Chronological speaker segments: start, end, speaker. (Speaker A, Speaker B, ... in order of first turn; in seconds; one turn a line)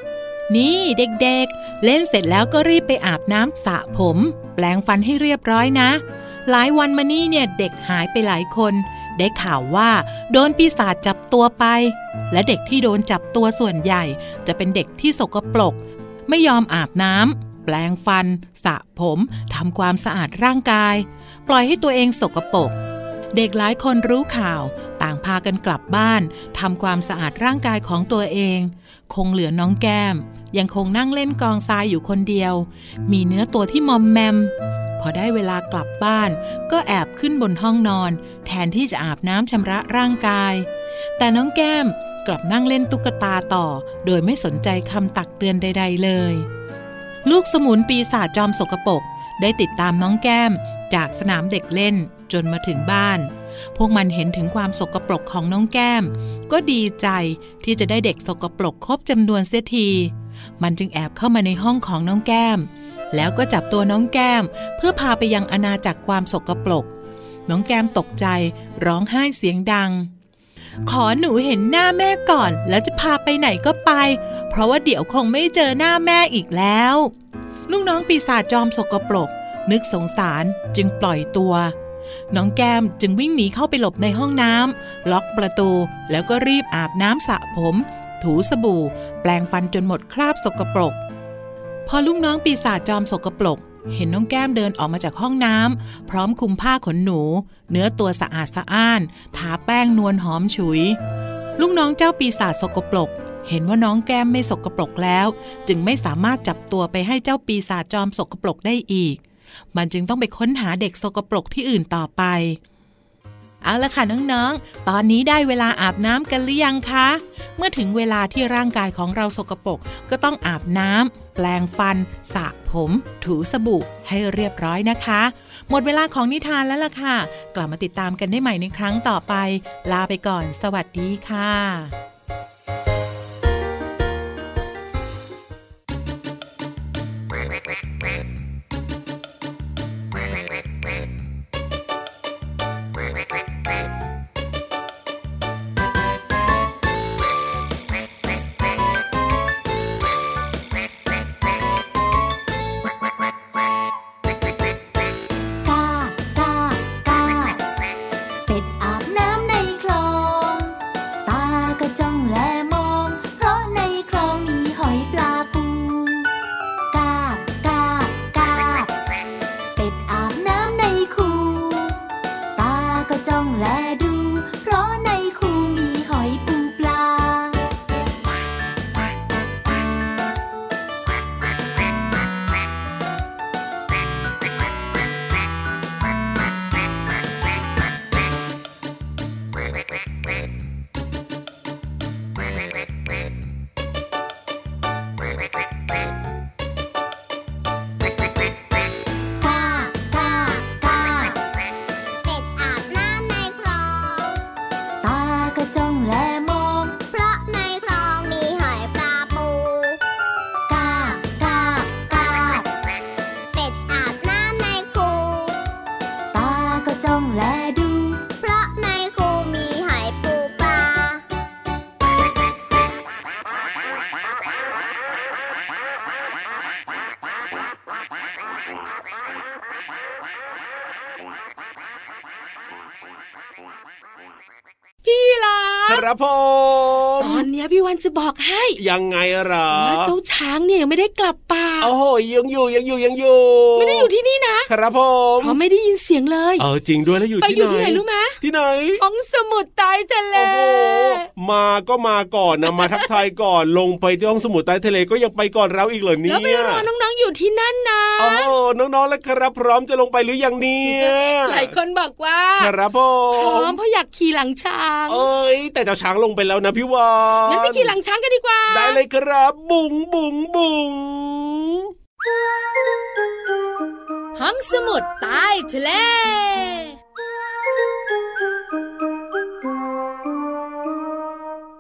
Speaker A: 0.5-22.7
Speaker A: 23.3-46.5
Speaker A: 47.2-66.9
Speaker A: 67.5-70.1
Speaker A: 70.9-77.1
Speaker A: 77.7-81.8
Speaker A: 82.3-91.0
Speaker A: 91.9-101.0
Speaker A: 101.6-109.2
Speaker A: 109.7-112.6
Speaker A: 113.6-131.9
Speaker B: 155.6-157.6
Speaker B: 158.5-166.3
Speaker B: 166.9-168.9
Speaker B: 169.8-172.0
Speaker B: 172.6-177.6
Speaker C: 199.4-201.4
Speaker B: 200.9-201.3
Speaker C: 202.2-204.4
Speaker B: 205.0-207.0
Speaker C: 207.1-210.0
Speaker B: 210.7-212.6
Speaker C: 211.2-212.6
Speaker C: 213.6-215.6
Speaker B: 216.3-218.2
Speaker C: 218.4-221.2
Speaker D: 235.1-236.0
Speaker E: 235.9-237.5
Speaker D: 237.2-238.8
Speaker E: 238.8-240.1
Speaker D: 239.7-241.9
Speaker E: 241.8-244.1
Speaker D: 243.8-244.7
Speaker E: 244.7-245.6
Speaker D: 245.4-246.7
Speaker E: 246.6-249.0
Speaker D: 247.4-248.3
Speaker D: 249.0-251.3
Speaker E: 250.3-256.9
Speaker D: 252.7-253.1
Speaker D: 256.2-258.5
Speaker E: 258.2-261.7
Speaker D: 260.9-262.7
Speaker E: 262.6-263.8
Speaker D: 263.3-265.3
Speaker E: 265.1-267.9
Speaker D: 267.5-269.0
Speaker E: 268.7-271.9
Speaker D: 274.4-276.9